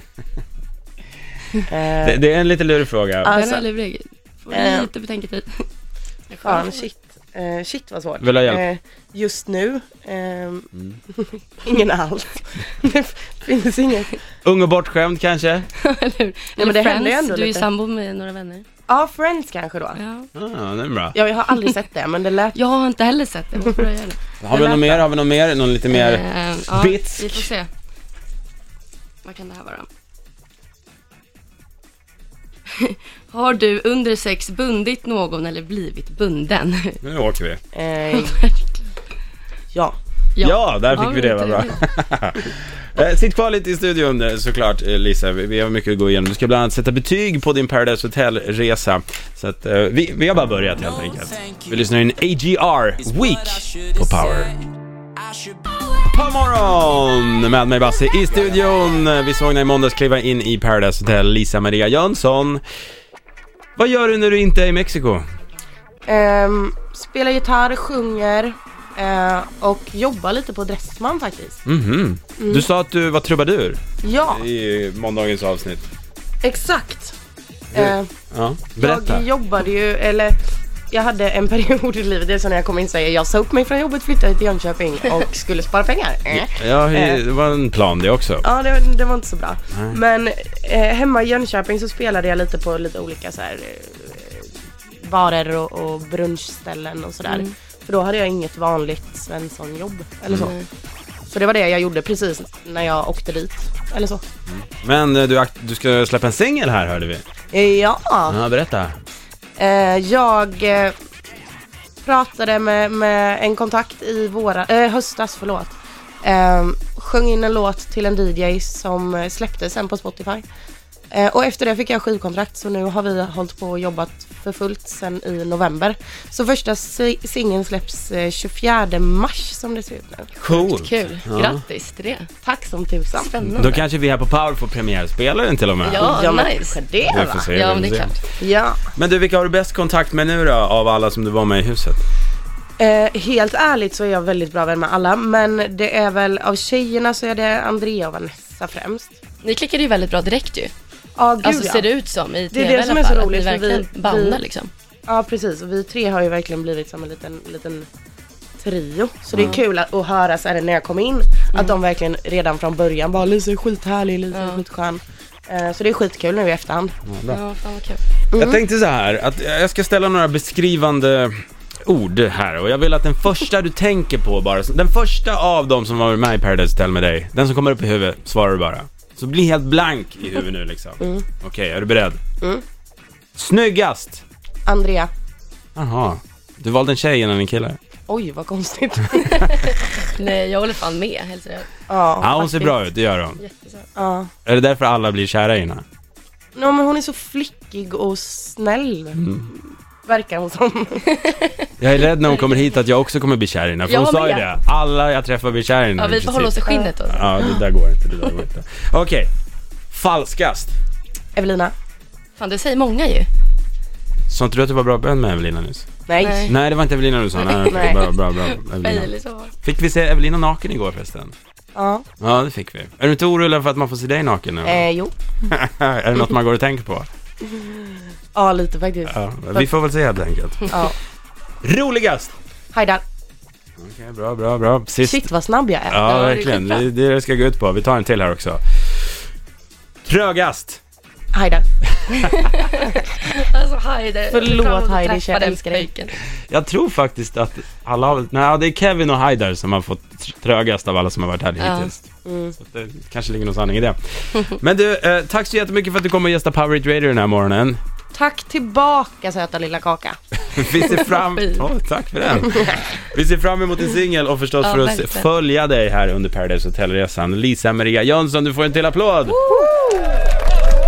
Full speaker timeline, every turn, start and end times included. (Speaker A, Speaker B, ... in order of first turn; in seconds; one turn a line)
Speaker A: 1.7-2.2
Speaker B: 2.0-3.3
Speaker A: 3.2-3.6
Speaker C: 3.3-5.7
Speaker A: 4.5-4.9
Speaker C: 6.3-6.8
Speaker A: 6.4-14.2
Speaker B: 8.2-8.6
Speaker B: 14.4-15.7
Speaker C: 15.8-18.6
Speaker A: 16.6-17.7
Speaker A: 18.9-20.0
Speaker C: 19.9-20.3
Speaker B: 20.3-21.2
Speaker A: 21.1-22.6
Speaker C: 22.5-25.0
Speaker B: 24.4-27.5
Speaker C: 25.9-27.7
Speaker C: 29.2-29.9
Speaker C: 32.7-37.0
Speaker B: 37.0-37.6
Speaker A: 37.7-38.4
Speaker C: 38.1-38.8
Speaker C: 40.4-41.8
Speaker B: 40.4-54.6
Speaker B: 56.0-62.6
Speaker B: 63.8-65.2
Speaker A: 66.0-71.6
Speaker B: 71.6-75.8
Speaker A: 72.4-72.6
Speaker A: 74.0-74.4
Speaker A: 76.4-77.2
Speaker A: 77.7-78.1
Speaker B: 77.7-79.2
Speaker A: 78.8-80.4
Speaker A: 80.9-87.2
Speaker B: 86.3-88.5
Speaker A: 88.4-100.5
Speaker B: 89.7-90.0
Speaker C: 97.2-97.5
Speaker C: 100.3-100.7
Speaker A: 101.3-104.2
Speaker B: 104.5-107.2
Speaker A: 107.5-108.4
Speaker B: 108.3-109.0
Speaker A: 109.6-110.9
Speaker A: 112.0-120.4
Speaker A: 121.1-130.3
Speaker B: 130.4-131.6
Speaker C: 130.4-132.3
Speaker A: 132.4-133.3
Speaker C: 133.1-133.8
Speaker B: 133.5-136.2
Speaker C: 135.8-136.8
Speaker A: 135.9-137.5
Speaker B: 137.1-138.1
Speaker C: 137.5-138.2
Speaker A: 138.4-138.8
Speaker B: 138.9-142.0
Speaker A: 142.8-149.2
Speaker C: 149.4-150.7
Speaker A: 151.2-151.9
Speaker C: 151.4-154.7
Speaker A: 152.5-154.4
Speaker A: 155.1-157.9
Speaker A: 158.6-166.9
Speaker C: 164.3-164.6
Speaker B: 167.1-167.4
Speaker C: 167.3-168.0
Speaker A: 168.3-168.6
Speaker B: 168.3-182.2
Speaker B: 183.3-184.2
Speaker A: 184.7-185.1
Speaker B: 185.8-187.8
Speaker A: 188.1-189.6
Speaker C: 189.2-191.7
Speaker A: 191.9-192.6
Speaker B: 192.2-193.4
Speaker C: 193.4-193.9
Speaker A: 193.9-194.3
Speaker B: 194.4-195.8
Speaker A: 196.5-201.3
Speaker B: 199.2-199.5
Speaker C: 201.1-201.6
Speaker B: 201.8-206.6
Speaker C: 202.2-202.7
Speaker C: 203.8-204.5
Speaker C: 206.0-207.5
Speaker A: 206.6-207.6
Speaker B: 207.1-209.3
Speaker B: 209.9-210.7
Speaker A: 211.3-211.7
Speaker C: 212.4-213.3
Speaker B: 214.3-215.9
Speaker A: 216.1-216.5
Speaker C: 216.2-216.5
Speaker B: 216.4-219.1
Speaker C: 217.4-219.5
Speaker A: 217.7-218.0
Speaker B: 219.6-221.3
Speaker A: 221.7-222.1
Speaker B: 222.2-224.8
Speaker A: 224.6-225.1
Speaker B: 225.4-227.1
Speaker A: 227.5-229.7
Speaker B: 229.1-230.8
Speaker A: 230.7-230.9
Speaker B: 231.6-232.3
Speaker A: 232.7-233.0
Speaker B: 233.8-235.3
Speaker A: 235.0-236.1
Speaker B: 235.9-239.1
Speaker C: 236.0-236.8
Speaker B: 240.0-240.8
Speaker A: 241.3-241.7
Speaker C: 242.3-246.1
Speaker A: 244.3-245.9
Speaker B: 246.5-252.1
Speaker C: 251.6-251.9
Speaker A: 252.2-252.6
Speaker B: 252.6-257.8
Speaker A: 258.1-260.2
Speaker B: 260.5-269.4
Speaker C: 260.8-261.6
Speaker C: 264.6-265.3
Speaker C: 269.3-269.8
Speaker A: 269.4-270.1